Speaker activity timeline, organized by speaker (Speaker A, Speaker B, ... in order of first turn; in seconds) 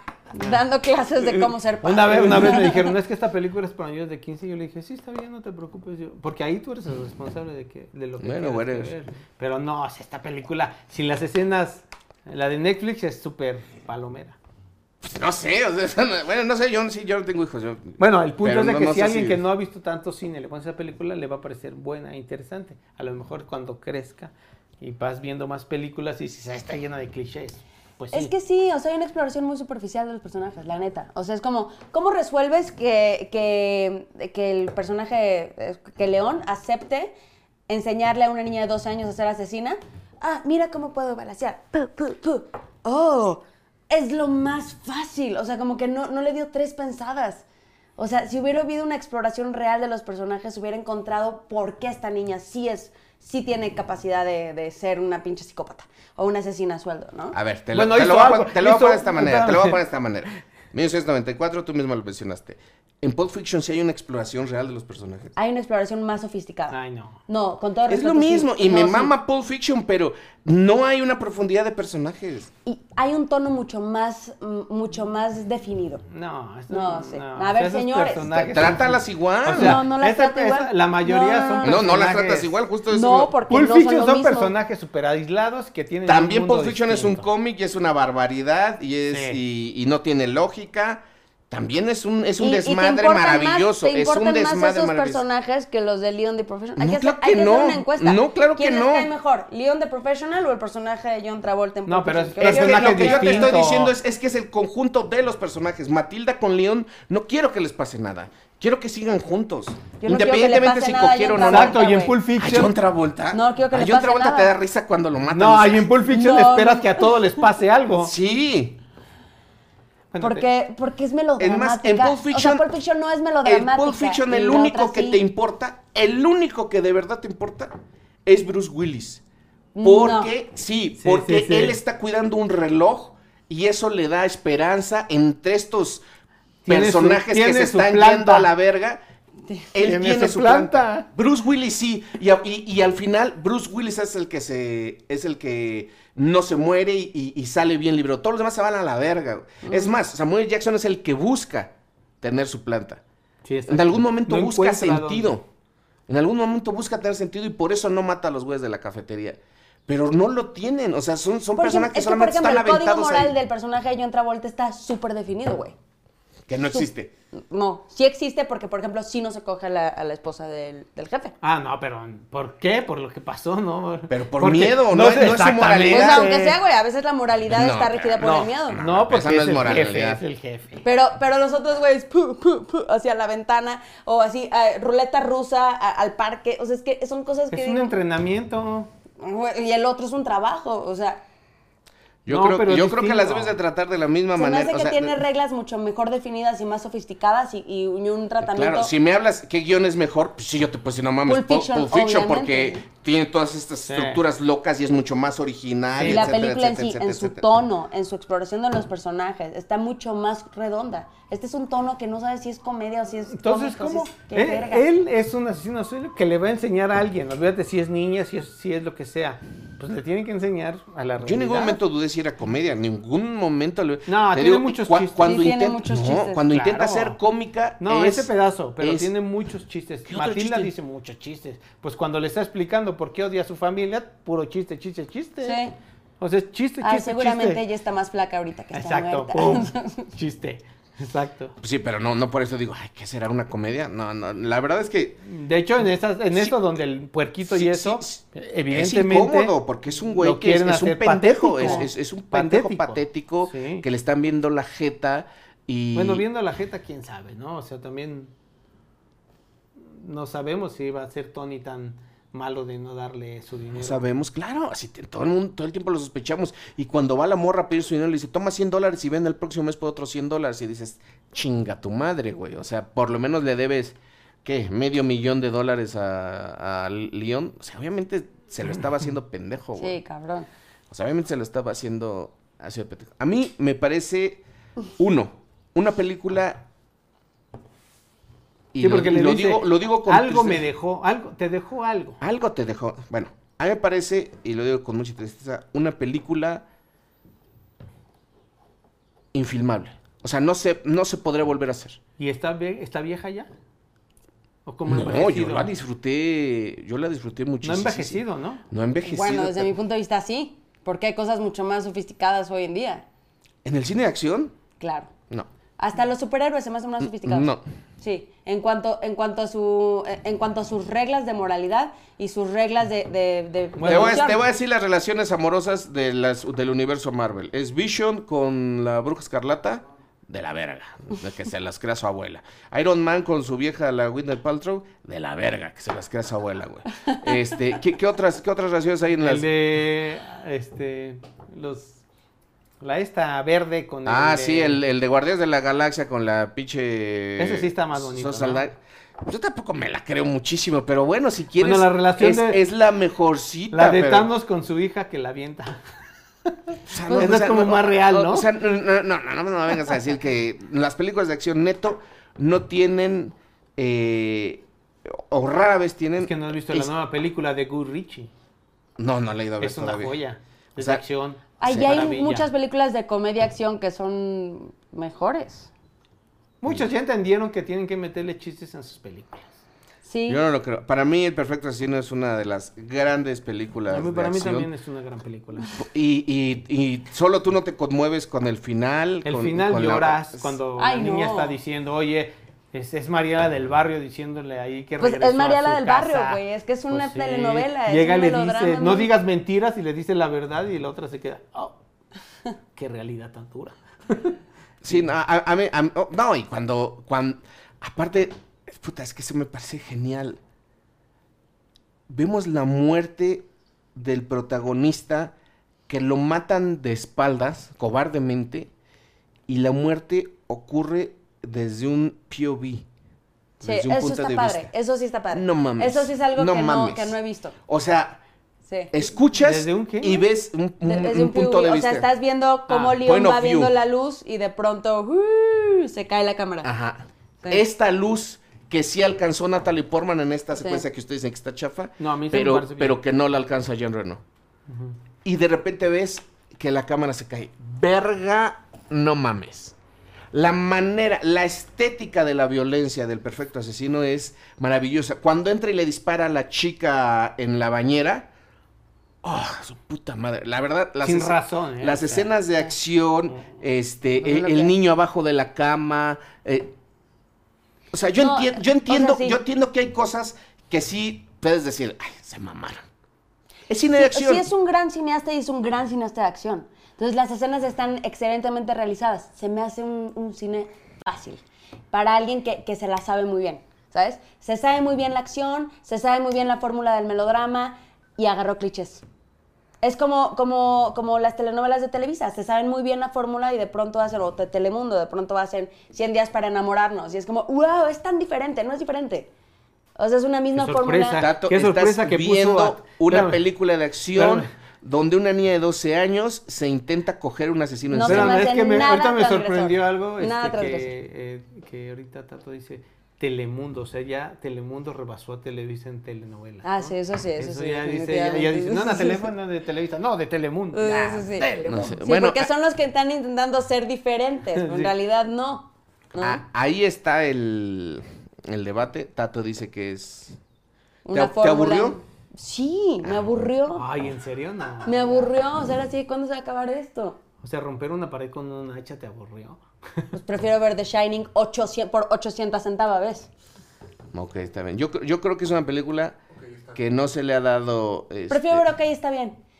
Speaker A: 0.3-2.9, 28.1-37.1, 37.7-47.4, 48.0-57.4, 65.3-69.1, 72.7-76.0, 76.7-78.4, 79.5-81.9, 82.9-84.5, 92.4-103.6, 110.0-112.2, 113.3-114.5, 116.1-117.1, 120.2-125.2, 129.7-130.3, 149.6-149.9, 161.5-165.7, 166.7-171.3, 175.8-178.8, 180.8-187.9, 189.2-191.2, 194.3-198.9, 201.2-202.8, 206.0-214.8, 225.2-226.6, 235.4-235.7, 236.8-240.0, 251.6-251.9, 279.8-280.5, 309.0-313.0, 314.8-315.1, 315.8-324.4, 371.6-375.7, 380.1-380.4, 390.8-391.5, 395.0-399.1, 423.6-427.6, 430.8-436.7, 440.6-440.8, 464.2-464.7, 468.2-469.4, 474.0-481.4, 481.9-489.0, 489.8-499.3, 500.0-501.2, 507.9-510.9, 516.6-519.3, 520.7-526.4, 531.0-533.9, 534.8-537.2, 540.1-543.3, 548.3-549.4
Speaker B: 1.8-14.3, 18.0-28.3, 57.7-59.8, 66.7-67.2, 76.1-82.5, 83.5-87.3, 89.1-89.4, 101.8-103.9, 111.4-112.7, 115.3-118.1, 120.1-120.5, 131.0-131.8, 136.6-138.5, 139.8-141.1, 153.4-155.3, 171.4-176.6, 178.2-180.8, 187.5-188.9, 192.3-193.5, 203.9-204.2, 206.0-206.3, 213.3-221.8, 224.1-225.4, 226.6-227.2, 227.8-235.6, 236.2-237.6, 238.7-241.5, 245.2-249.5, 250.2-253.8, 255.9-258.3, 259.8-264.0, 288.8-292.2, 302.2-303.5, 304.6-305.7, 307.6-308.6, 323.8-324.2, 339.2-342.0, 342.8-344.8, 347.4-348.6, 351.6-352.6, 353.7-355.8, 356.5-358.5, 366.2-368.3, 369.6-372.5, 376.6-379.6, 383.9-385.7, 389.2-401.8, 402.8-404.4, 429.4-430.2, 432.7-433.0, 442.0-443.0, 444.7-444.9, 461.0-462.3, 500.5-503.4, 504.1-504.5, 508.1-521.5, 524.5-524.9, 533.7-535.3, 537.4-540.2
Speaker C: 8.2-8.9, 15.0-19.4, 57.3-65.3, 67.9-72.5, 78.3-79.8, 81.6-83.3, 86.0-95.2, 96.8-99.1, 102.4-111.8, 112.4-115.9, 118.0-118.8, 121.4-122.6, 123.4-127.7, 128.2-129.2, 129.8-136.0, 136.7-139.0, 139.7-153.0, 153.7-155.4, 156.1-163.3, 166.5-167.1, 174.1-176.3, 177.5-180.2, 192.2-195.2, 198.4-207.5, 221.2-229.1, 230.1-230.7, 241.6-245.2, 247.5-256.2, 263.8-280.0, 280.9-284.4, 285.0-286.6, 288.7-290.6, 292.2-296.6, 299.3-302.0, 304.9-309.7, 313.6-314.5, 317.0-317.6, 323.8-339.4, 344.1-354.3, 356.9-366.9, 369.0-370.1, 371.6-372.0, 380.3-384.7, 385.8-390.5, 404.8-410.4, 412.1-415.3, 415.9-418.7, 419.5-422.9, 423.6-424.7, 425.3-428.2, 428.9-432.1, 433.0-433.7, 436.6-444.2, 445.2-449.8, 450.3-458.3, 459.2-466.7, 467.9-472.8, 473.7-474.5, 501.2-508.4, 521.5-522.5, 526.2-530.4, 531.1-532.0, 544.1-546.2, 546.7-548.6